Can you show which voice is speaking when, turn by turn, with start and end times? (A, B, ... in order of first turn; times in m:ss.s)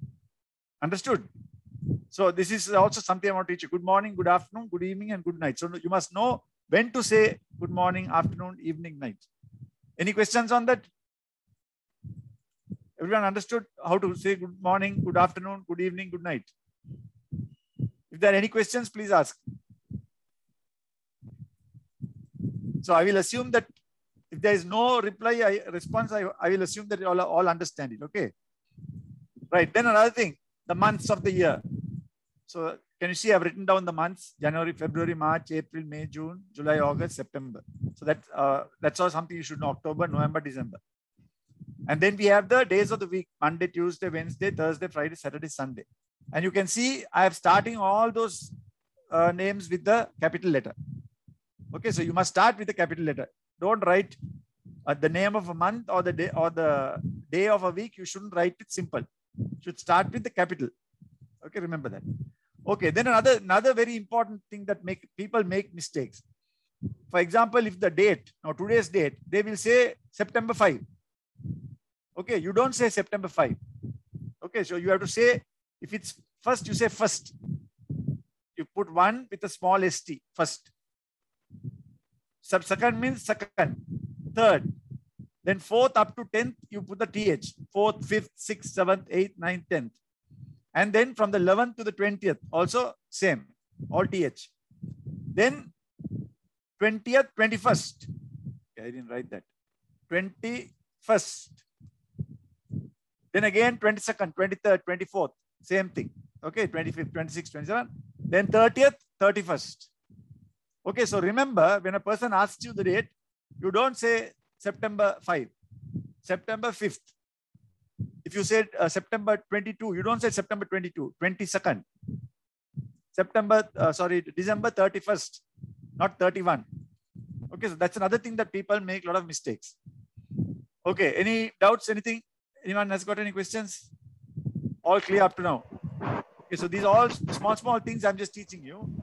0:00.8-0:01.3 A
0:02.1-0:09.2 A
0:10.0-0:10.9 A
0:13.0-0:16.5 A
0:18.1-0:19.4 A
0:22.8-0:23.7 A
0:24.3-0:28.3 A
0:29.5-0:31.6 A
0:32.5-0:40.8 A
0:41.9-0:48.5 A
0:49.1-0:50.7 A
0:51.7-0:54.2 A
0:54.9-0:59.0 A
0:59.6-1:00.7 A
1:01.4-1:02.0 A
1:02.7-1:06.2 A
1:07.1-1:10.8 A
1:12.2-1:13.6 A
1:14.4-1:17.3 A
1:18.6-1:20.7 A
1:22.4-1:23.8 A
1:24.3-1:24.7 A
1:25.4-1:29.9 A
1:30.8-1:34.5 A
1:35.3-1:35.7 A
1:36.8-1:38.1 A
1:38.8-1:39.4 A
1:40.1-1:41.6 A
1:43.3-1:49.9 A
1:50.8-1:55.5 A
1:56.2-1:57.1 A
1:58.2-2:01.8 A
2:03.1-2:05.4 A
2:06.0-2:06.6 A
2:07.5-2:09.8 A
2:10.8-2:13.9 A
2:14.8-2:15.6 A
2:16.5-2:18.9 A